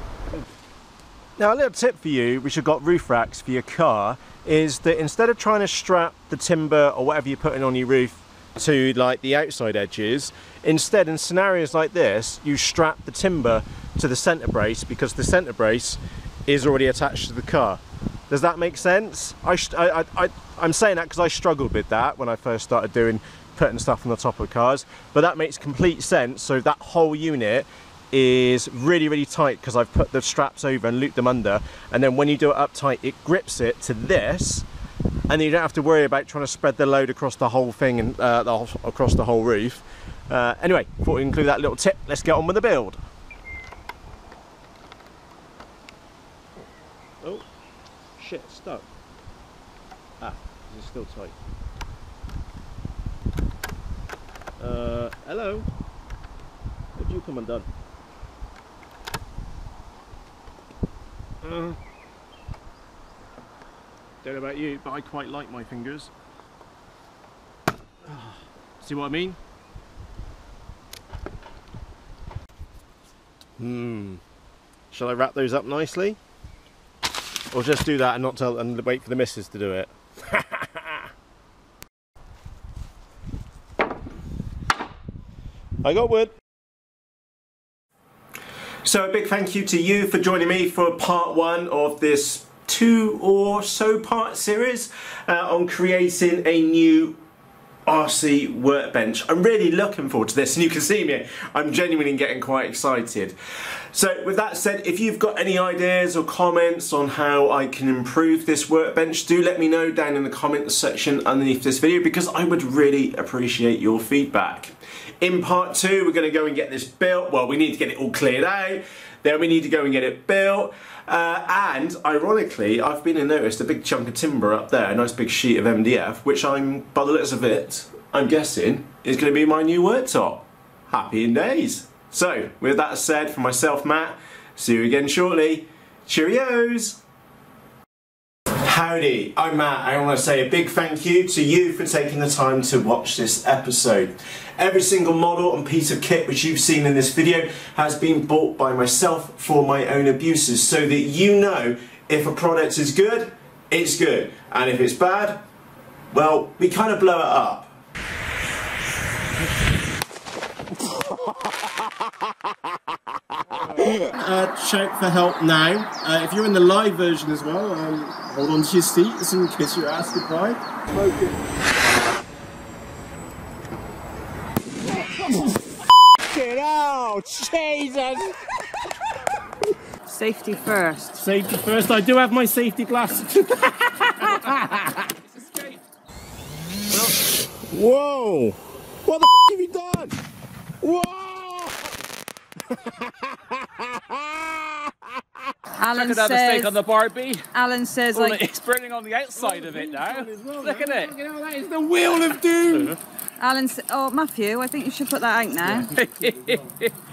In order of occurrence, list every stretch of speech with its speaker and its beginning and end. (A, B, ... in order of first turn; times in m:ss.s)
0:01.4-0:34.7 A
0:35.3-0:43.0 A
0:48.2-0:48.9 A
0:50.2-0:51.4 A
0:54.6-0:55.7 A
0:57.0-0:57.7 A
1:01.4-1:01.8 A
1:04.2-1:06.1 A
1:08.1-1:09.4 A
1:13.6-1:14.2 A
1:14.9-1:16.2 A
1:17.5-1:21.1 A
1:25.8-1:26.4 A
1:28.8-1:37.2 A
1:37.9-1:43.4 A
1:43.9-2:17.0 A
2:18.6-2:35.4 A
2:36.1-2:37.7 A
2:43.5-2:51.3 A
2:54.9-2:55.6 A
2:56.1-2:58.5 A
3:00.1-3:01.2 B
3:01.2-3:05.2 A
3:05.4-3:05.8 C
3:06.9-3:10.2 A
3:10.8-3:12.0 A
3:12.7-3:15.1 A
3:15.8-3:16.8 B
3:15.9-3:17.5 C
3:17.5-3:18.4 B
3:18.1-3:21.1 C
3:19.4-3:22.9 A
3:22.2-3:23.0 C
3:23.4-3:25.9 B
3:26.0-3:26.9 C